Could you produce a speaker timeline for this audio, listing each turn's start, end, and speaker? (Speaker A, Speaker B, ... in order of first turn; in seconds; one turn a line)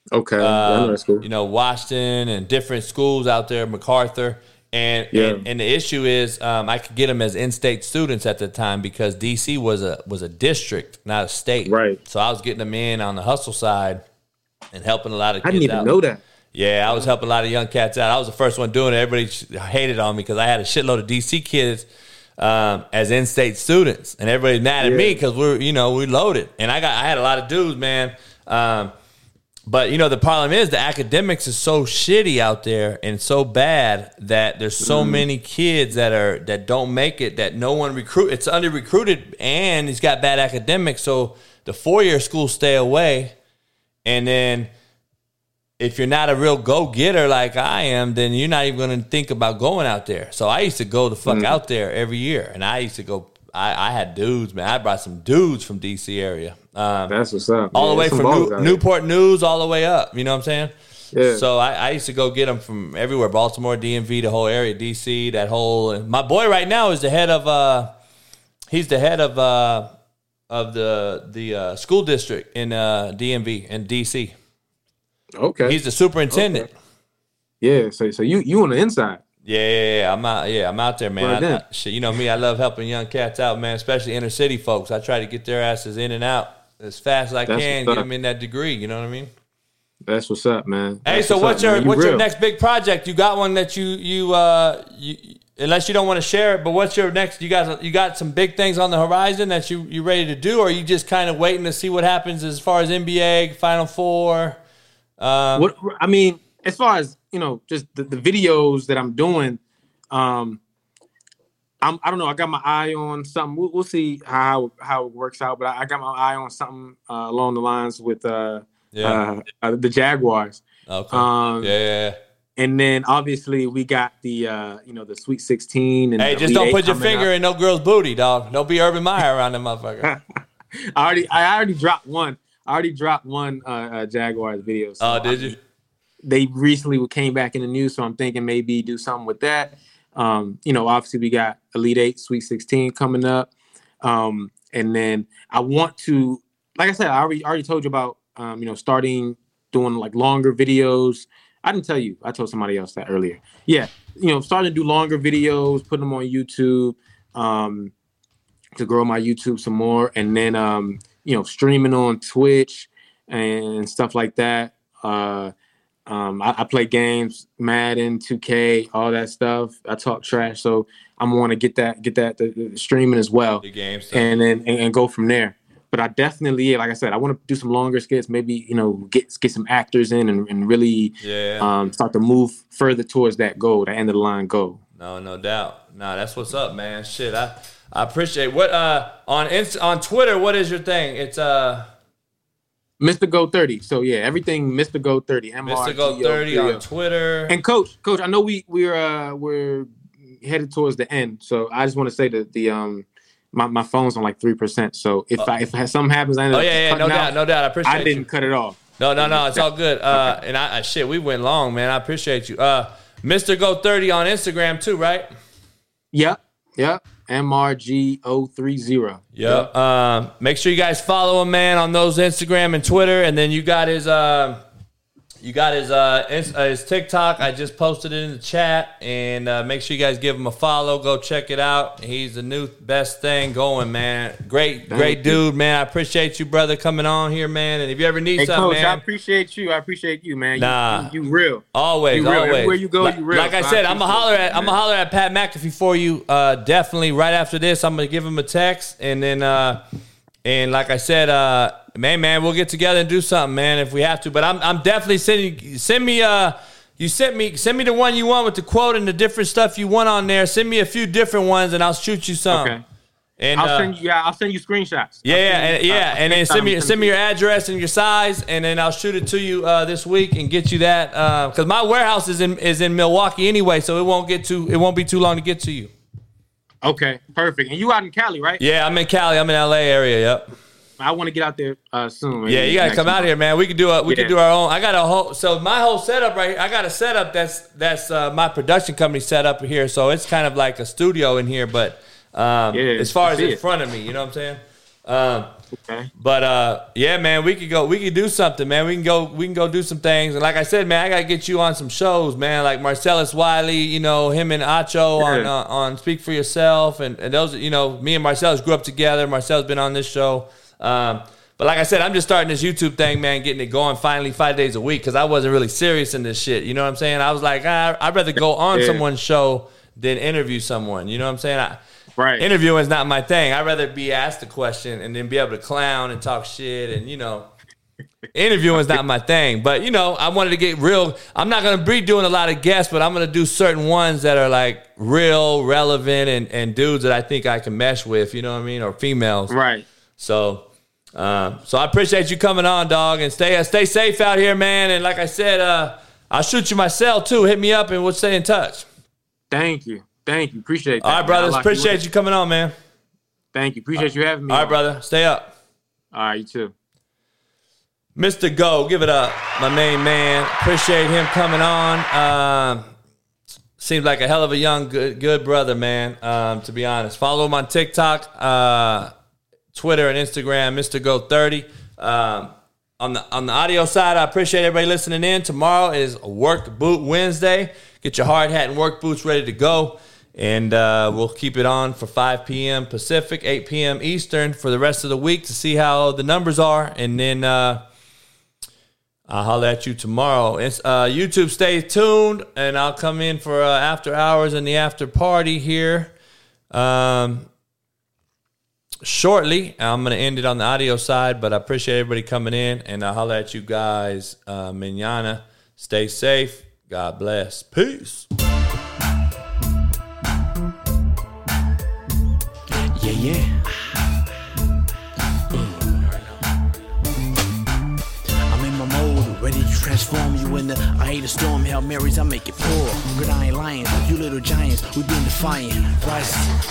Speaker A: 0.1-1.2
Speaker B: 0.4-14.0
Speaker A: 5.1-5.5
Speaker A: 11.7-12.0
Speaker B: 14.7-16.0
Speaker A: 15.4-16.2
Speaker B: 16.5-21.9
Speaker B: 22.4-28.9
Speaker A: 24.8-25.2
Speaker B: 29.7-43.4
Speaker A: 34.8-35.3
Speaker B: 44.0-44.7
Speaker B: 45.8-57.2
Speaker A: 51.3-51.6
Speaker A: 57.1-58.8
Speaker B: 57.7-67.9
Speaker A: 61.1-61.5
Speaker B: 68.7-69.9
Speaker B: 70.5-74.3
Speaker A: 75.4-75.8
Speaker B: 75.7-76.7
Speaker A: 76.3-76.7
Speaker A: 77.6-79.2
Speaker B: 79.5-89.3
Speaker A: 81.2-81.6
Speaker A: 87.5-88.1
Speaker A: 90.1-92.2
Speaker B: 91.0-104.6
Speaker B: 105.2-105.7
Speaker A: 105.6-109.6
Speaker A: 110.1-110.6
Speaker A: 111.8-121.7
Speaker B: 118.9-119.2
Speaker B: 120.9-122.2
Speaker A: 122.6-127.3
Speaker B: 126.2-130.1
Speaker A: 130.9-135.6
Speaker B: 135.0-135.6
Speaker A: 136.2-143.5
Speaker A: 144.0-157.9
Speaker A: 158.8-165.5
Speaker A: 166.1-184.8
Speaker B: 173.6-174.3
Speaker B: 181.2-181.7
Speaker B: 185.0-191.9
Speaker A: 193.0-196.8
Speaker B: 195.6-197.6
Speaker A: 197.5-199.9
Speaker A: 200.4-210.3
Speaker B: 206.5-208.3
Speaker B: 209.0-215.3
Speaker A: 216.1-219.7
Speaker B: 219.3-224.6
Speaker B: 225.4-239.0
Speaker A: 234.9-235.4
Speaker A: 238.4-244.8
Speaker B: 240.6-241.1
Speaker B: 241.7-249.8
Speaker B: 250.4-262.7
Speaker A: 262.5-262.8
Speaker B: 263.4-263.9
Speaker A: 263.6-267.1
Speaker B: 265.2-275.9
Speaker A: 276.8-278.6
Speaker B: 278.6-280.5
Speaker A: 281.0-283.3
Speaker B: 282.4-295.5
Speaker A: 284.1-284.3
Speaker A: 292.7-293.6
Speaker A: 295.8-296.1
Speaker B: 296.2-321.8
Speaker A: 305.2-305.5
Speaker A: 318.7-319.0
Speaker A: 322.2-322.4
Speaker B: 322.4-327.5
Speaker B: 328.3-339.6
Speaker A: 339.5-339.9
Speaker B: 340.2-348.9
Speaker A: 349.5-352.0
Speaker B: 351.0-352.7
Speaker A: 353.5-354.8
Speaker B: 354.0-355.5
Speaker A: 356.1-356.7
Speaker B: 358.2-362.9
Speaker B: 363.8-369.1
Speaker B: 369.7-387.8
Speaker B: 389.3-396.1
Speaker B: 396.7-397.5
Speaker B: 399.0-408.3
Speaker C: 412.7-414.0
Speaker C: 415.5-416.3
Speaker C: 418.5-426.6